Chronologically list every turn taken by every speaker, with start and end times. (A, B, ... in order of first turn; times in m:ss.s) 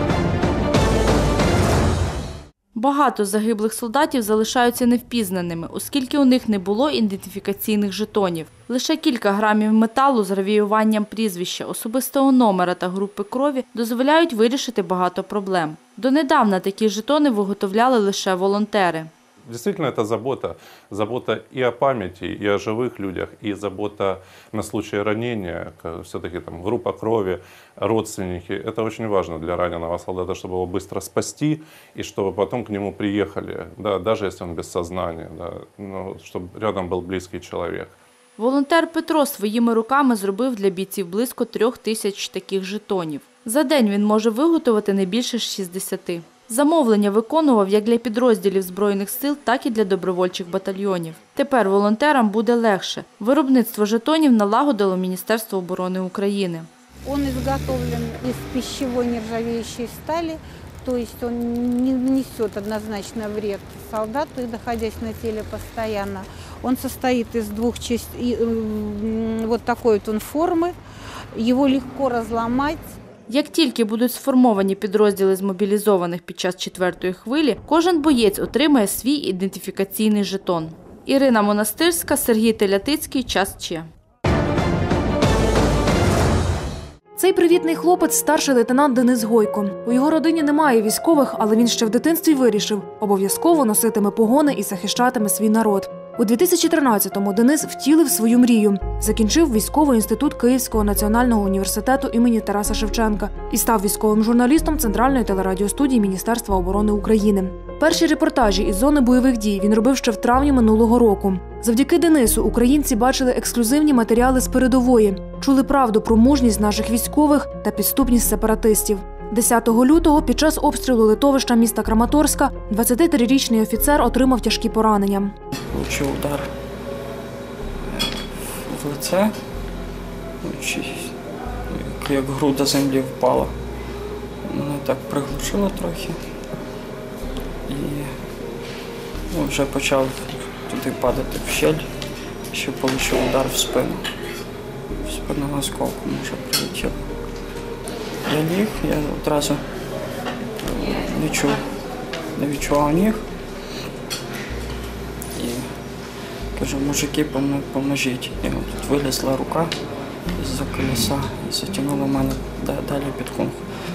0:02.8-0:19.1 A
0:19.4-0:38.0 B
0:38.4-0:56.7 A
0:57.0-1:10.8 C
1:11.3-1:13.0 C
1:13.3-1:23.9 A
1:27.2-2:05.3 D
2:05.7-2:06.5 E
2:07.8-2:09.4 E
2:10.4-2:11.2 E
2:11.7-2:13.6 E
2:14.4-2:16.2 E
2:17.6-2:18.2 E
2:19.3-2:21.9 E
2:22.5-2:24.1 E
2:25.0-2:27.0 E
2:28.2-2:29.6 E
2:30.6-2:31.6 E
2:32.3-2:33.3 E
2:35.3-2:35.7 E
2:36.5-2:39.7 E
2:40.3-2:43.6 E